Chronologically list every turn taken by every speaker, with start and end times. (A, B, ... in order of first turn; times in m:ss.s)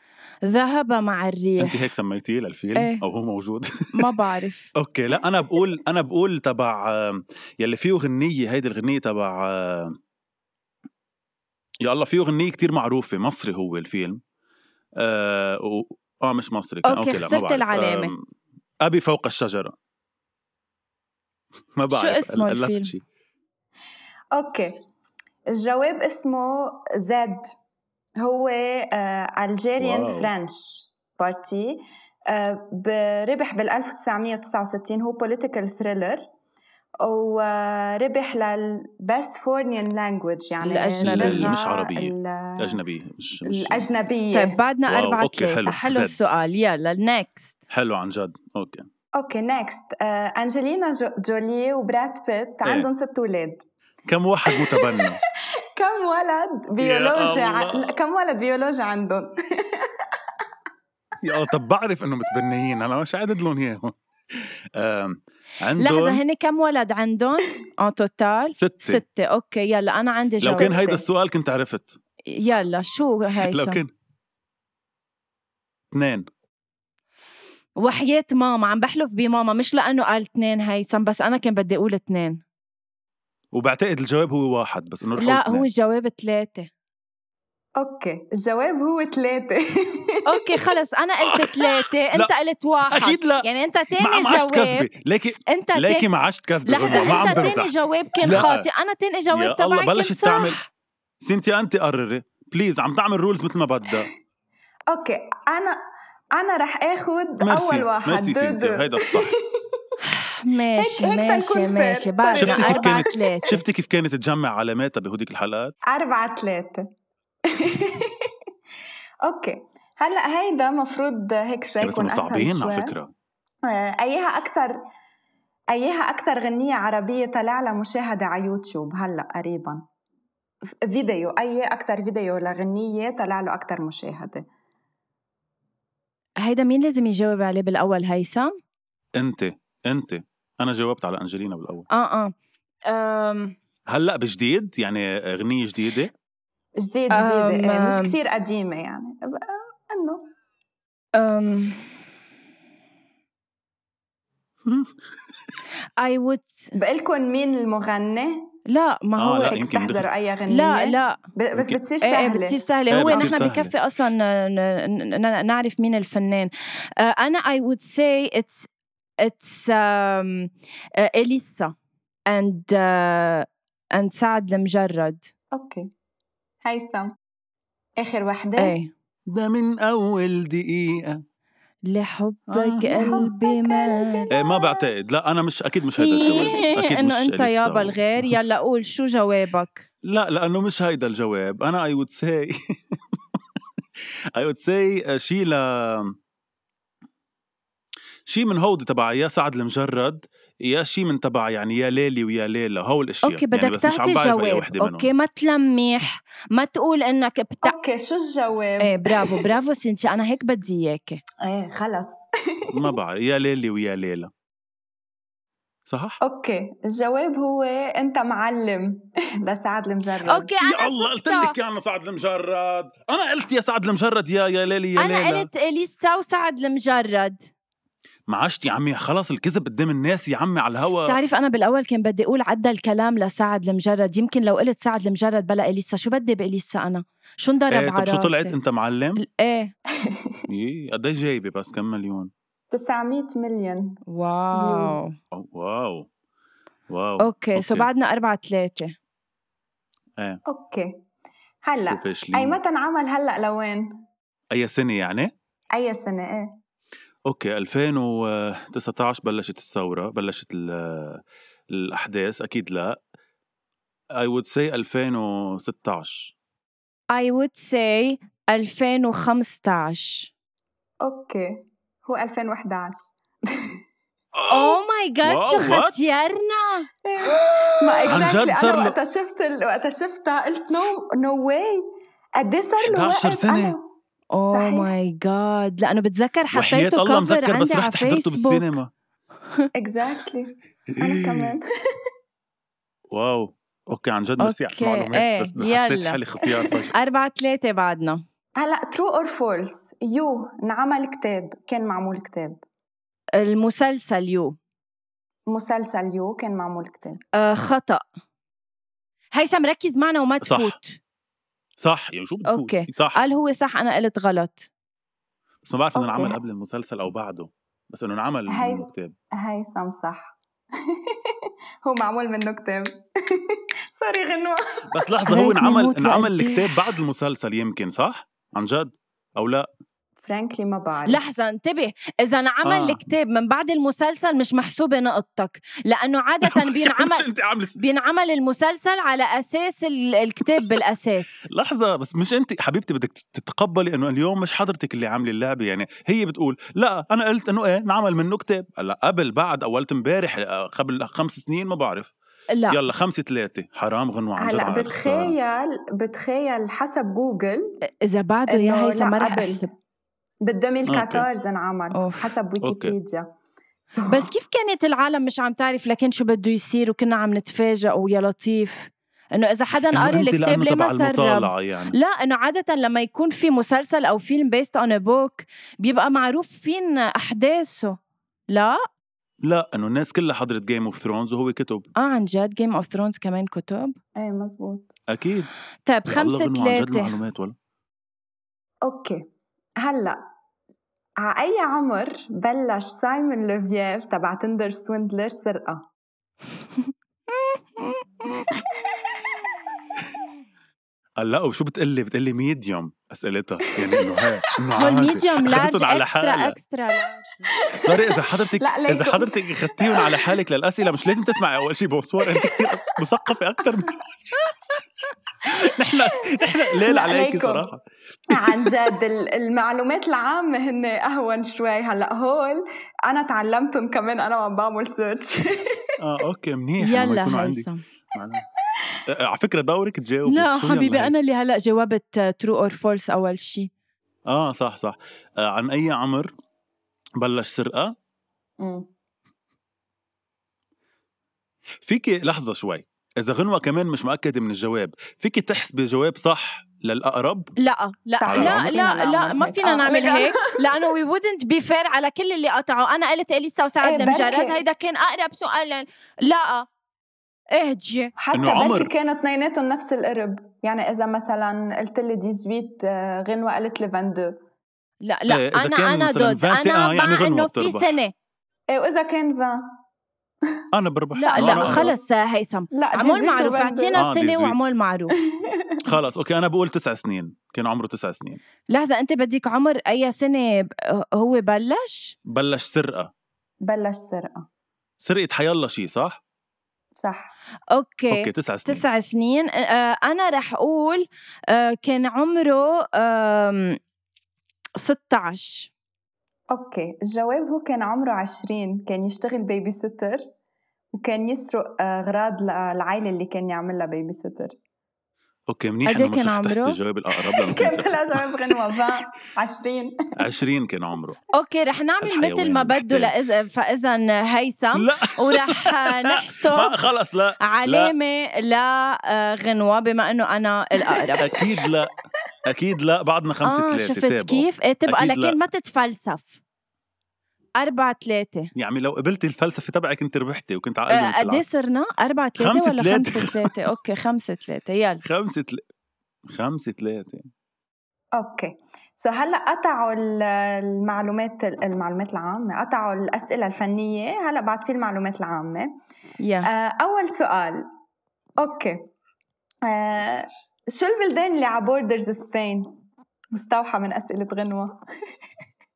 0:00.5-0:01.8 A
0:01.6-0:04.1 B
0:02.8-0:03.0 A
0:03.9-0:04.7 A
0:04.8-0:10.0 B
0:11.8-0:14.2 B
0:15.0-0:18.2 B
0:16.8-0:18.2 A
0:18.8-0:19.8 B
0:21.8-0:23.0 B
0:21.9-0:22.9 A
0:24.3-0:24.8 C
0:25.5-0:27.5 C
0:28.2-0:36.3 C
0:29.8-0:30.3 B
0:37.0-0:42.8 C
0:40.6-0:41.5 A
0:41.0-0:43.9 B
0:43.5-0:44.6 C
0:44.3-0:47.6 A
0:44.9-0:46.3 B
0:47.7-0:48.9 B
0:49.2-0:53.6 C
0:54.1-0:55.2 B
0:54.5-0:55.2 C
0:55.8-1:00.0 C
0:56.8-0:58.0 B
1:01.2-1:06.2 B
1:05.8-1:10.8 A
1:08.6-1:09.0 B
1:10.4-1:12.0 B
1:10.5-1:11.0 C
1:12.3-1:13.8 A
1:13.4-1:13.9 B
1:15.9-1:16.3 B
1:17.8-1:22.4 A
1:23.5-1:25.6 B
1:25.2-1:26.7 A
1:27.8-1:30.2 C
1:30.3-1:34.9 A
1:31.3-1:32.3 B
1:32.9-1:33.5 B
1:34.0-1:38.7 B
1:35.5-1:36.1 A
1:36.7-1:40.7 A
1:37.0-1:37.3 C
1:39.3-1:40.6 B
1:41.2-1:44.1 B
1:44.9-1:45.8 C
1:46.4-1:49.8 C
1:47.4-1:49.4 B
1:50.0-1:53.6 A
1:50.8-1:53.6 C
1:52.4-1:55.7 B
1:55.9-1:56.8 C
1:57.5-1:58.3 C
1:59.2-2:02.9 C
2:01.8-2:03.1 B
2:03.7-2:04.8 C
2:05.7-2:09.8 C
2:10.8-2:14.4 C
2:16.4-2:18.5 A
2:19.2-2:21.9 B
2:21.9-2:22.3 A
2:22.9-2:23.6 A
2:23.9-2:26.1 B
2:26.8-2:30.2 C
2:27.1-2:28.1 A
2:31.2-2:31.8 A
2:34.6-2:34.9 B
2:36.0-2:36.7 A
2:36.8-2:38.5 C
2:38.7-2:39.6 A
2:39.2-2:40.1 B
2:39.5-2:43.4 C
2:40.5-2:41.2 A
2:41.5-2:41.8 B
2:42.0-2:48.7 A
2:42.9-2:43.7 B
2:49.2-2:51.7 A
2:52.3-2:55.3 A
2:55.5-2:55.9 C
2:56.6-2:57.1 C
2:58.0-2:58.8 C
2:58.6-2:58.9 A
2:59.3-3:01.2 B
3:01.9-3:04.3 A
3:02.5-3:03.2 B
3:03.0-3:04.6 C
3:04.3-3:08.4 B
3:06.0-3:09.9 A
3:06.2-3:06.5 C
3:10.0-3:13.4 B
3:14.4-3:16.1 B
3:18.3-3:25.1 B
3:23.2-3:27.8 A
3:27.6-3:29.5 C
3:28.8-3:31.2 A
3:31.4-3:32.9 C
3:32.7-3:34.3 B
3:35.9-3:36.2 B
3:36.2-3:40.5 C
3:40.3-3:41.5 A
3:40.6-3:45.5 B
3:45.0-3:47.5 A
3:48.3-3:51.2 B
3:51.1-3:58.5 A
3:57.7-3:59.2 B
3:59.2-3:59.7 A
4:00.0-4:00.4 C
4:00.5-4:02.3 B
4:02.7-4:04.0 C
4:04.1-4:05.2 A
4:04.5-4:05.1 C
4:05.3-4:06.1 B
4:06.9-4:07.9 B
4:07.2-4:08.9 A
4:10.5-4:10.9 C
4:11.6-4:13.9 C
4:11.8-4:12.6 B
4:14.5-4:15.3 B
4:15.8-4:16.5 C
4:17.3-4:21.2 B
4:21.7-4:23.0 B
4:24.2-4:26.3 B
4:27.1-4:30.3 A
4:31.0-4:33.8 C
4:34.4-4:36.1 B
4:34.5-4:38.2 A
4:37.1-4:41.9 C
4:38.1-4:39.0 B
4:42.4-4:43.9 C
4:42.8-4:43.8 B
4:44.3-4:48.8 A
4:44.5-4:44.9 C
4:46.5-4:48.9 B
4:49.8-4:51.6 C
4:51.0-4:51.6 B
4:53.1-4:56.9 B
4:54.4-4:56.2 A
4:56.9-4:58.2 A
4:58.6-5:02.6 C
5:03.4-5:04.6 A
5:05.5-5:07.2 C
5:07.4-5:08.0 A
5:09.3-5:11.0 A
5:10.4-5:10.8 B
5:11.8-5:13.2 B
5:12.5-5:14.7 A
5:15.6-5:19.1 B
5:16.0-5:16.4 C
5:18.5-5:18.9 C
5:19.4-5:25.1 C
5:24.9-5:29.7 B
5:25.3-5:26.8 A
5:30.2-5:31.2 C
5:31.1-5:37.3 A
5:32.6-5:33.0 B
5:36.5-5:37.8 B
5:37.8-5:41.4 A
5:41.5-5:52.1 B
5:52.7-5:55.4 B
5:54.4-5:57.8 C
5:58.0-5:59.7 A
5:58.5-5:59.7 C
6:00.4-6:03.2 C
6:00.9-6:01.3 B
6:01.9-6:02.3 A
6:02.6-6:02.9 B
6:03.9-6:04.3 C
6:04.1-6:18.0 A
6:09.9-6:12.0 B
6:18.5-6:18.8 A
6:19.4-6:21.9 B
6:22.0-6:24.0 A
6:24.2-6:24.9 C
6:25.1-6:25.5 B
6:25.9-6:27.1 A
6:26.1-6:27.6 B
6:28.8-6:29.2 C
6:29.8-6:30.2 C
6:31.2-6:35.9 C
6:36.8-6:38.4 A
6:38.6-6:39.1 C
6:41.2-6:46.6 B
6:43.8-6:44.3 C
6:44.8-6:47.3 A
6:47.6-6:50.4 C
6:47.8-6:54.5 B
6:52.2-6:53.0 C
6:55.4-6:58.8 B
6:56.8-6:57.7 C
6:58.3-7:05.8 C
7:06.0-7:08.4 B
7:06.8-7:07.8 A
7:09.1-7:11.2 B
7:10.3-7:13.7 A
7:14.3-7:16.3 B
7:17.2-7:17.9 B
7:18.6-7:18.9 C
7:21.8-7:27.5 B
7:27.6-7:36.7 A
7:28.2-7:30.9 C
7:28.3-7:28.7 B
7:33.8-7:34.6 C
7:37.5-7:38.1 A
7:38.2-7:44.4 C
7:38.3-7:38.9 B
7:45.0-7:48.1 A
7:45.3-7:47.9 B
7:48.7-7:49.7 C
7:50.7-7:51.9 B
7:51.2-7:55.2 A
7:51.3-7:52.0 C
7:52.7-7:54.0 C
7:54.0-7:54.6 B
7:55.4-7:55.9 C
7:55.8-7:58.4 B
7:58.7-8:02.2 A
8:02.3-8:03.1 B
8:03.6-8:04.5 C
8:05.0-8:06.2 B
8:07.0-8:07.3 C
8:07.8-8:13.8 A
8:08.1-8:08.8 B
8:14.8-8:15.7 A
8:16.5-8:20.2 C
8:21.0-8:24.6 C
8:25.5-8:28.8 B
8:25.9-8:26.8 A
8:27.3-8:29.9 C
8:30.2-8:31.2 B
8:31.4-8:36.7 A
8:32.0-8:33.1 B
8:34.8-8:37.9 B
8:37.4-8:41.2 A
8:40.9-8:41.5 C
8:41.2-8:41.9 B
8:42.5-8:45.4 B
8:43.4-8:46.4 A
8:47.6-8:48.5 A
8:48.6-8:51.4 B
8:50.9-8:55.0 A
8:52.4-8:53.6 B
8:55.0-8:55.6 B
8:56.3-8:57.3 B
8:58.1-9:05.7 C
9:06.2-9:06.5 A
9:06.4-9:07.7 C
9:08.4-9:08.8 C
9:09.7-9:12.7 C
9:13.3-9:14.8 C